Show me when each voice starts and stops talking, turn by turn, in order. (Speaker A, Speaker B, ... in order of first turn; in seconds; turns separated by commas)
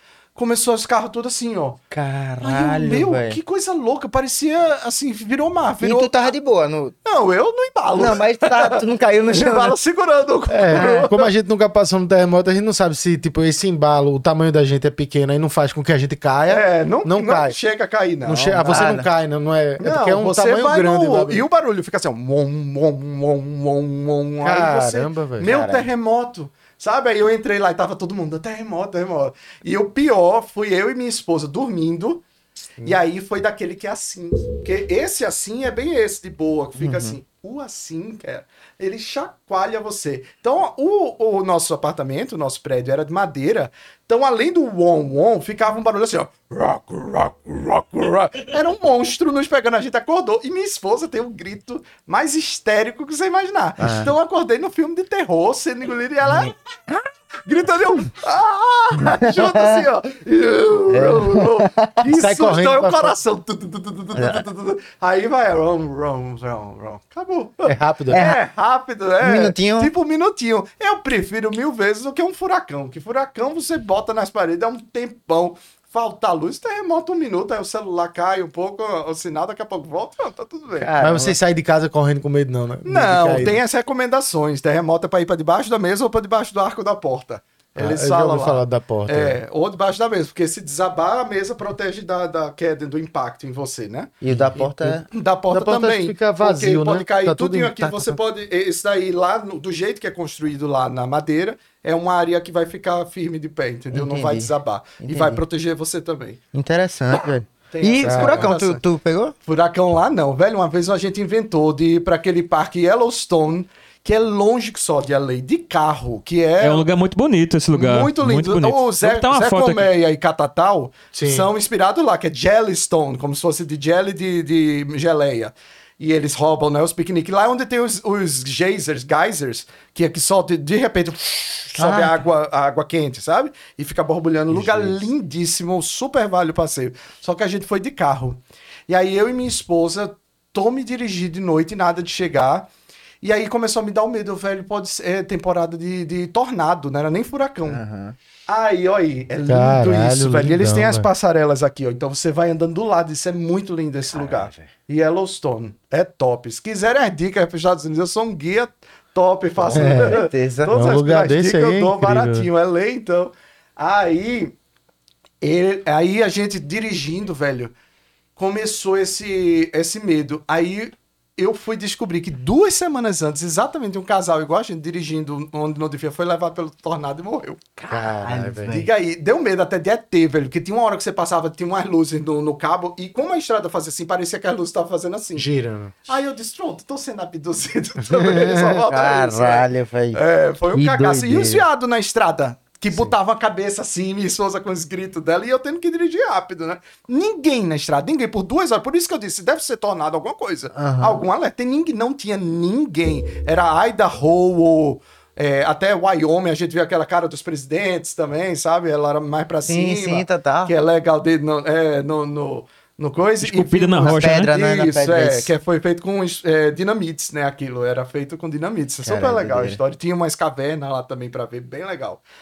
Speaker A: 0.3-1.8, Speaker B: 1.9-3.4, Speaker A: 2.4-6.3, Speaker B: 5.8-7.0, Speaker A: 7.0-11.3, Speaker B: 8.0-9.8, Speaker C: 10.5-17.6, Speaker B: 10.7-11.1, Speaker A: 16.5-18.9, Speaker C: 18.2-21.4, Speaker B: 18.3-19.1, Speaker A: 19.8-32.2, Speaker C: 24.4-25.6, Speaker B: 25.4-25.9, Speaker A: 32.8-80.9, Speaker B: 36.8-37.2, Speaker B: 53.8-54.1, Speaker B: 59.0-59.9, Speaker B: 60.9-61.9, Speaker C: 62.1-63.2, Speaker B: 64.2-64.4, Speaker C: 67.7-68.3, Speaker B: 68.1-68.4, Speaker B: 69.2-69.9, Speaker B: 80.8-81.4, Speaker C: 81.0-83.6, Speaker A: 82.8-106.4, Speaker C: 87.8-89.4, Speaker B: 94.2-95.1, Speaker C: 94.3-98.2, Speaker B: 103.9-105.4, Speaker B: 106.5-109.3, Speaker A: 107.7-108.8, Speaker C: 108.0-108.5, Speaker A: 109.5-116.9, Speaker D: 116.6-119.9, Speaker A: 117.7-142.7, Speaker C: 121.1-121.5, Speaker B: 131.8-132.2, Speaker C: 134.5-135.1, Speaker A: 143.2-147.8, Speaker B: 147.7-148.2, Speaker A: 148.5-164.6, Speaker C: 149.5-151.1, Speaker B: 154.1-154.7, Speaker B: 159.7-160.7, Speaker C: 159.7-162.5, Speaker A: 165.4-167.7, Speaker A: 168.4-177.6, Speaker B: 177.8-178.9, Speaker C: 177.9-178.7, Speaker A: 178.7-185.5, Speaker C: 185.4-186.0, Speaker A: 186.1-222.2, Speaker C: 188.1-188.8, Speaker B: 188.8-190.2, Speaker B: 190.7-191.7, Speaker B: 200.7-201.2, Speaker B: 209.7-210.7, Speaker D: 213.4-214.5, Speaker B: 214.0-215.5, Speaker B: 219.1-219.8